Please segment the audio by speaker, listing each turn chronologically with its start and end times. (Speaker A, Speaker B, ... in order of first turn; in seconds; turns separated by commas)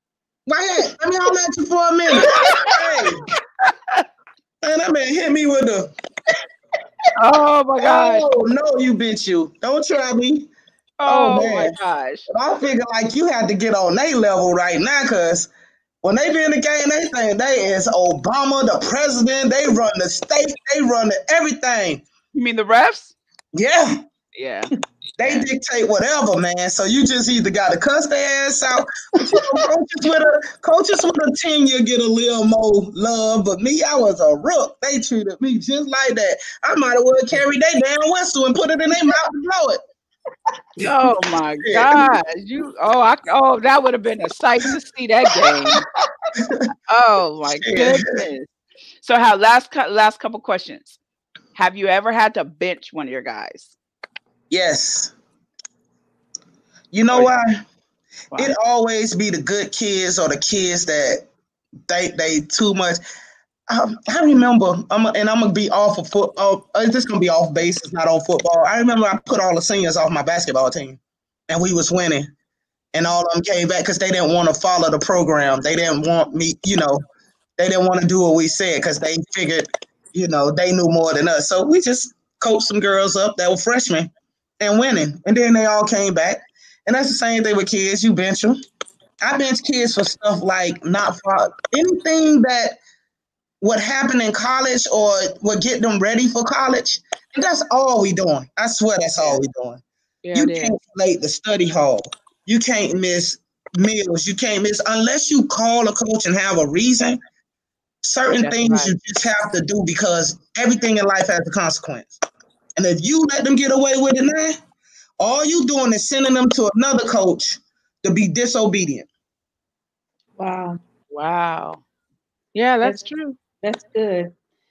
Speaker A: 0.5-3.2, Speaker B: 2.2-2.7, Speaker C: 2.3-2.7, Speaker A: 4.6-5.9, Speaker B: 7.2-8.2, Speaker A: 7.8-10.5, Speaker B: 11.0-12.3, Speaker A: 11.1-11.7, Speaker A: 12.3-15.5, Speaker A: 16.0-22.0, Speaker B: 22.3-23.2, Speaker A: 23.5-24.0, Speaker B: 24.4-25.5, Speaker A: 25.2-39.8, Speaker C: 29.2-29.6, Speaker B: 40.8-45.8, Speaker A: 41.6-42.2, Speaker A: 46.4-46.6, Speaker B: 46.9-48.5, Speaker A: 47.6-48.2, Speaker B: 49.0-51.0, Speaker B: 51.5-53.7, Speaker A: 54.5-55.1, Speaker A: 56.9-57.6, Speaker A: 58.4-61.2, Speaker A: 61.9-63.0, Speaker A: 63.7-72.3, Speaker A: 72.9-77.0, Speaker A: 77.6-88.6, Speaker A: 89.2-92.8, Speaker A: 93.6-99.8, Speaker B: 100.2-100.8, Speaker A: 100.3-107.2, Speaker A: 108.0-112.2, Speaker B: 108.4-108.9, Speaker A: 112.8-114.6, Speaker A: 115.2-119.1, Speaker C: 120.4-120.8, Speaker B: 121.1-121.8, Speaker B: 122.5-123.4, Speaker C: 122.8-123.1, Speaker C: 123.6-124.3